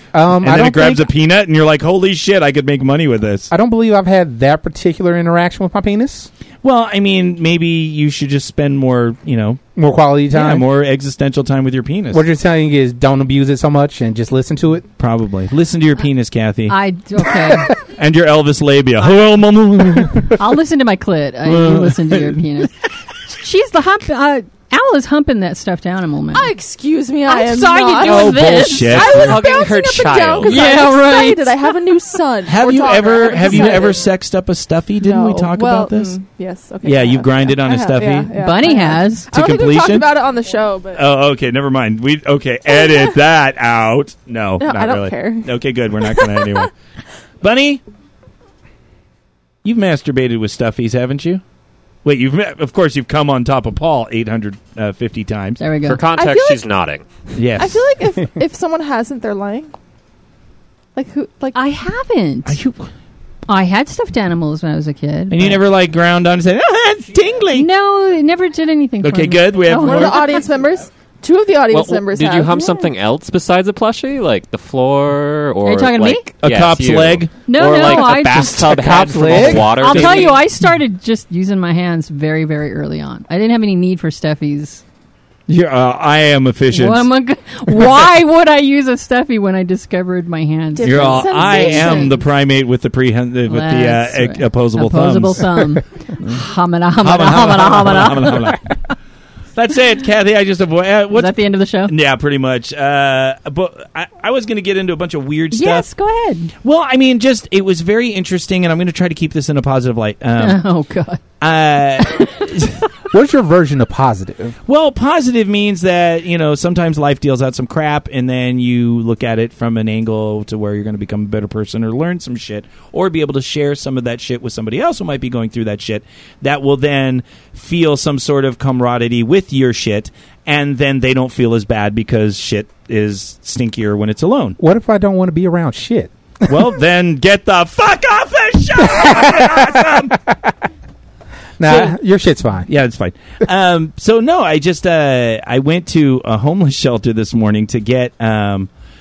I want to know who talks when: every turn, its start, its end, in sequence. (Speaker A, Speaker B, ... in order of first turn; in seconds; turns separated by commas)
Speaker A: 0.1-1.1, Speaker B: 0.4-3.5, Speaker A: 3.5-6.3, Speaker B: 6.6-9.6, Speaker A: 9.8-10.7, Speaker B: 10.3-12.2, Speaker A: 12.1-14.9, Speaker B: 15.0-16.8, Speaker C: 16.7-17.8, Speaker B: 17.8-20.4, Speaker C: 20.3-22.7, Speaker B: 21.4-22.4, Speaker C: 23.3-26.5, Speaker D: 26.3-34.0, Speaker C: 27.3-29.3, Speaker B: 28.0-29.4, Speaker E: 28.9-30.8, Speaker C: 30.4-31.7, Speaker B: 32.5-36.2, Speaker C: 33.4-33.8, Speaker D: 35.0-41.0, Speaker B: 36.8-38.3, Speaker C: 38.4-39.3, Speaker B: 39.3-40.1, Speaker B: 41.0-46.7, Speaker D: 44.6-46.5, Speaker B: 47.4-47.8, Speaker B: 49.6-51.4, Speaker B: 52.0-55.6, Speaker C: 55.6-56.0, Speaker E: 55.9-57.0, Speaker D: 56.1-56.7, Speaker B: 57.4-57.9, Speaker D: 57.6-59.7, Speaker D: 61.0-61.6, Speaker C: 61.5-62.6, Speaker B: 62.5-62.9, Speaker C: 63.5-65.6, Speaker B: 65.3-67.7, Speaker C: 67.5-70.3, Speaker B: 69.0-70.4, Speaker D: 69.8-72.7, Speaker E: 71.7-80.4, Speaker C: 75.7-76.3, Speaker B: 76.4-77.3, Speaker C: 77.5-78.8, Speaker A: 78.7-80.0, Speaker B: 79.3-80.3, Speaker C: 79.7-84.8, Speaker B: 85.5-87.1, Speaker C: 86.7-92.1, Speaker D: 90.7-92.3, Speaker B: 90.8-96.4, Speaker C: 93.5-98.7, Speaker B: 97.0-98.7, Speaker B: 99.5-105.9, Speaker C: 101.1-101.9, Speaker C: 105.5-106.5, Speaker B: 106.6-110.6, Speaker C: 110.4-111.2, Speaker B: 111.4-112.8, Speaker C: 112.0-112.7, Speaker A: 113.1-114.6, Speaker B: 114.7-134.6, Speaker A: 134.6-136.6, Speaker B: 136.5-140.2, Speaker A: 138.9-140.3, Speaker A: 141.6-142.7, Speaker B: 141.6-142.0, Speaker B: 142.7-148.7